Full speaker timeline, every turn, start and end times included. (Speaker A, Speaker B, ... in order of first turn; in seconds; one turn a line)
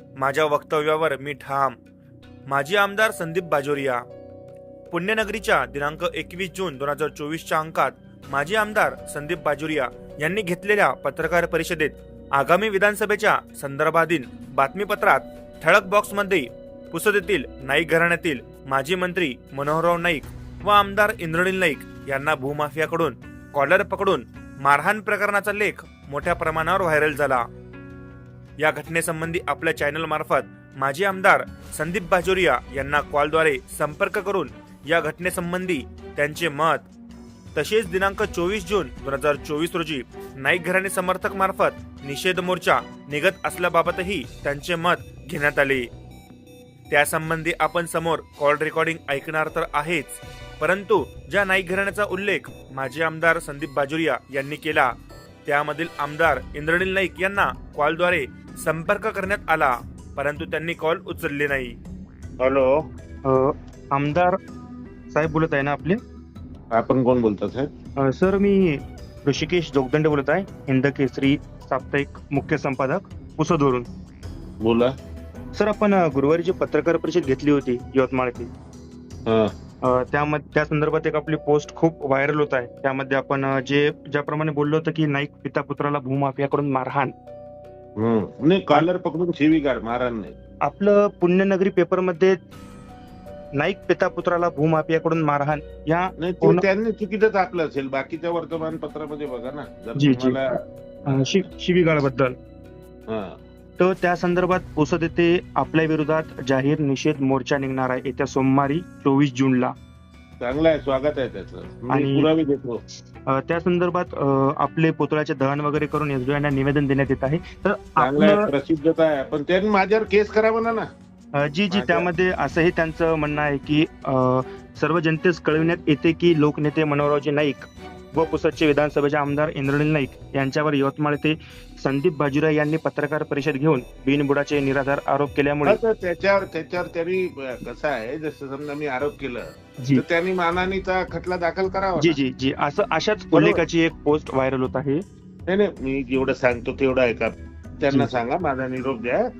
Speaker A: 0.2-1.8
Speaker A: 2.5-4.0
Speaker A: 4.9-27.4
Speaker A: 28.6-36.9
Speaker A: 37.5-45.9
Speaker A: 46.9-54.9
Speaker A: 55.5-61.8
Speaker B: 62.4-62.7
Speaker C: 63.2-64.3
Speaker C: 65.1-66.0
Speaker B: 66.7-67.7
Speaker C: 68.0-73.9
Speaker B: 74.6-74.9
Speaker C: 75.5-78.5
Speaker C: 79.8-87.1
Speaker B: 88.0-90.3
Speaker C: 90.7-92.4
Speaker C: 93.6-96.6
Speaker B: 96.2-101.4
Speaker C: 100.0-100.6
Speaker C: 101.1-102.3
Speaker B: 103.1-103.3
Speaker C: 103.8-109.7
Speaker B: 110.4-112.8
Speaker C: 111.9-112.3
Speaker C: 113.3-118.5
Speaker B: 118.0-120.8
Speaker C: 121.4-135.8
Speaker B: 121.7-122.1
Speaker B: 135.7-142.2
Speaker C: 142.0-145.0
Speaker B: 143.3-143.6
Speaker B: 145.5-149.2